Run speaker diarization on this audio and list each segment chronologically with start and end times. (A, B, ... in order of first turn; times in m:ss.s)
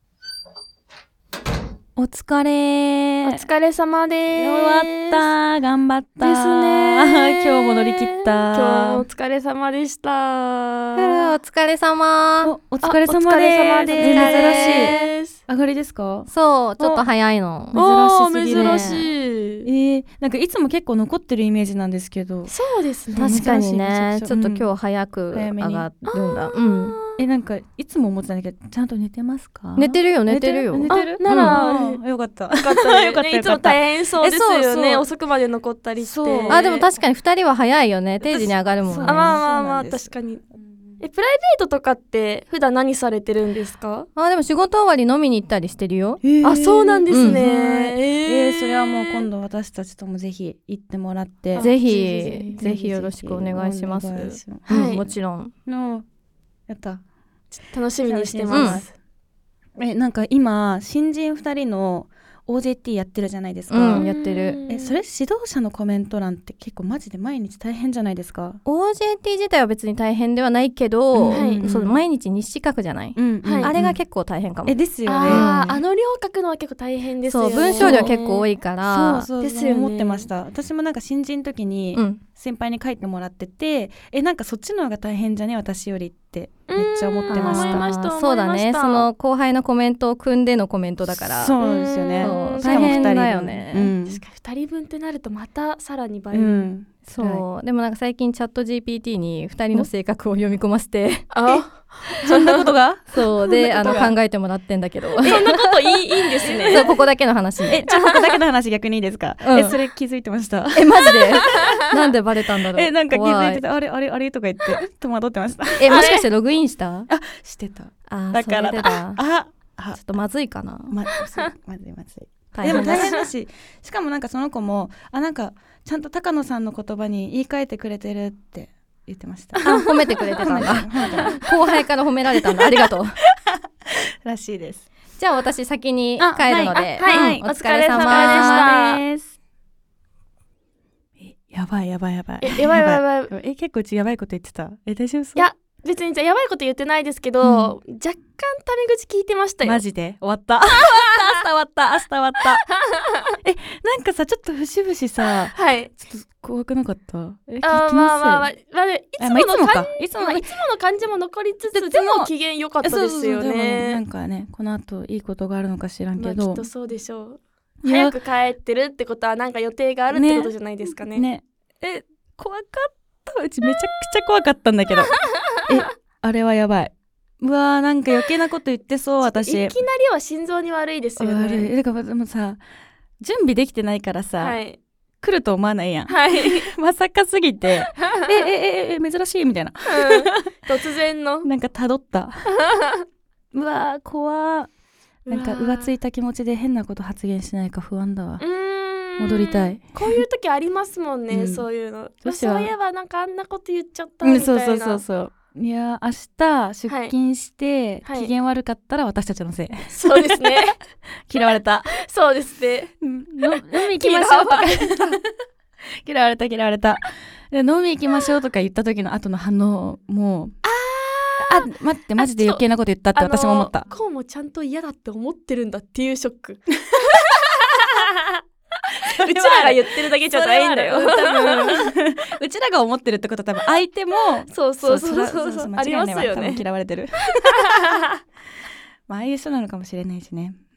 0:02.0-0:03.4 A
0:03.2-0:05.3 B
0:04.4-0:09.0 A
0:06.2-0:11.3 B
0:11.0-0:12.5 C
0:12.4-0:17.1 A
0:12.8-0:15.4 B
0:14.0-0:15.1 C
0:16.3-0:17.8 C
0:17.7-0:19.1 A
0:17.7-0:19.7 B
0:18.5-0:19.1 C
0:19.6-0:22.5 A
0:22.5-0:23.4 B
0:23.1-0:24.7 A
0:23.2-0:27.0 C
0:25.3-0:25.9 A
0:26.1-0:27.2 B
0:27.2-0:35.1 A
0:29.8-0:31.6 C
0:30.9-0:32.0 B
0:32.6-0:36.9 B
0:36.0-0:36.7 A
0:36.5-0:39.4 C
0:38.2-0:41.0 A
0:39.0-0:40.4 B
0:41.0-0:44.1 B
0:44.2-0:46.2 C
0:46.2-0:51.7 A
0:46.4-0:49.3 B
0:47.1-0:47.4 C
0:51.5-0:52.6 B
0:51.6-0:55.5 C
0:52.3-0:55.1 A
0:54.7-0:55.0 B
0:55.7-0:56.1 A
0:56.7-0:57.0 A
0:57.6-0:58.9 B
0:58.0-0:58.9 A
0:58.5-0:58.8 C
0:59.8-1:04.1 A
1:03.7-1:04.6 C
1:03.9-1:05.0 B
1:04.7-1:08.6 A
1:08.6-1:15.8 C
1:11.1-1:12.0 A
1:11.3-1:11.7 B
1:13.2-1:14.0 A
1:13.4-1:13.7 B
1:14.6-1:15.5 A
1:15.1-1:18.5 B
1:17.3-1:19.3 C
1:17.4-1:18.1 A
1:18.8-1:27.9 A
1:19.4-1:20.3 B
1:22.0-1:22.2 C
1:26.7-1:29.1 B
1:27.3-1:31.6 C
1:31.2-1:34.2 A
1:31.6-1:33.2 B
1:32.2-1:33.9 C
1:34.0-1:36.7 B
1:36.3-1:37.4 A
1:37.1-1:41.3 C
1:41.3-1:42.7 B
1:42.2-1:44.1 A
1:43.1-1:45.7 C
1:43.5-1:44.1 B
1:45.2-1:47.0 B
1:46.4-1:47.9 C
1:46.4-1:46.9 A
1:47.7-1:51.8 A
1:47.8-1:48.4 B
1:49.4-1:49.8 C
1:50.7-1:53.6 C
1:52.7-1:56.2 A
1:55.8-1:57.1 C
1:55.8-1:56.3 B
1:57.1-2:00.0 A
1:58.1-1:59.2 C
1:59.9-2:01.0 C
2:00.9-2:11.8 A
2:01.2-2:01.5 B
2:02.5-2:03.2 C
2:02.6-2:03.2 B
2:09.6-2:13.2 C
2:14.2-2:14.9 A
2:15.2-2:18.8 C
2:16.2-2:19.4 A
2:17.0-2:19.0 B
2:21.2-2:25.5 A
2:22.4-2:23.3 B
2:25.4-2:29.8 B
2:27.4-2:27.8 A
2:29.6-2:32.6 A
2:30.7-2:31.1 B
2:33.4-2:38.5 A
2:35.5-2:35.9 B
2:37.6-2:44.0 B
2:39.2-2:40.5 A
2:41.7-2:46.7 A
2:46.2-2:51.3 B
2:47.8-2:48.2 A
2:50.1-2:55.1 A
2:55.6-2:59.8 A
2:59.2-3:01.7 B
3:01.2-3:02.6 A
3:03.2-3:04.6 A
3:04.4-3:04.8 B
3:05.2-3:10.5 A
3:06.1-3:06.7 B
3:09.9-3:11.5 B
3:11.4-3:12.5 A
3:12.7-3:13.0 B
3:13.5-3:14.7 A
3:15.3-3:16.0 B
3:15.3-3:18.4 A
3:18.4-3:25.0 B
3:19.2-3:20.2 A
3:21.3-3:21.7 A
3:22.2-3:22.7 A
3:24.2-3:30.7 A
3:26.9-3:27.1 B
3:28.0-3:28.3 B
3:29.9-3:30.8 B
3:31.3-3:31.9 A
3:31.9-3:32.9 B
3:33.0-3:35.2 A
3:33.5-3:35.2 B
3:36.0-3:40.6 A
3:40.7-3:48.4 B
3:41.4-3:43.9 A
3:49.0-3:51.9 B
3:49.2-3:58.0 A
3:54.5-3:56.6 B
3:57.4-3:58.2 B
3:59.1-4:00.6 A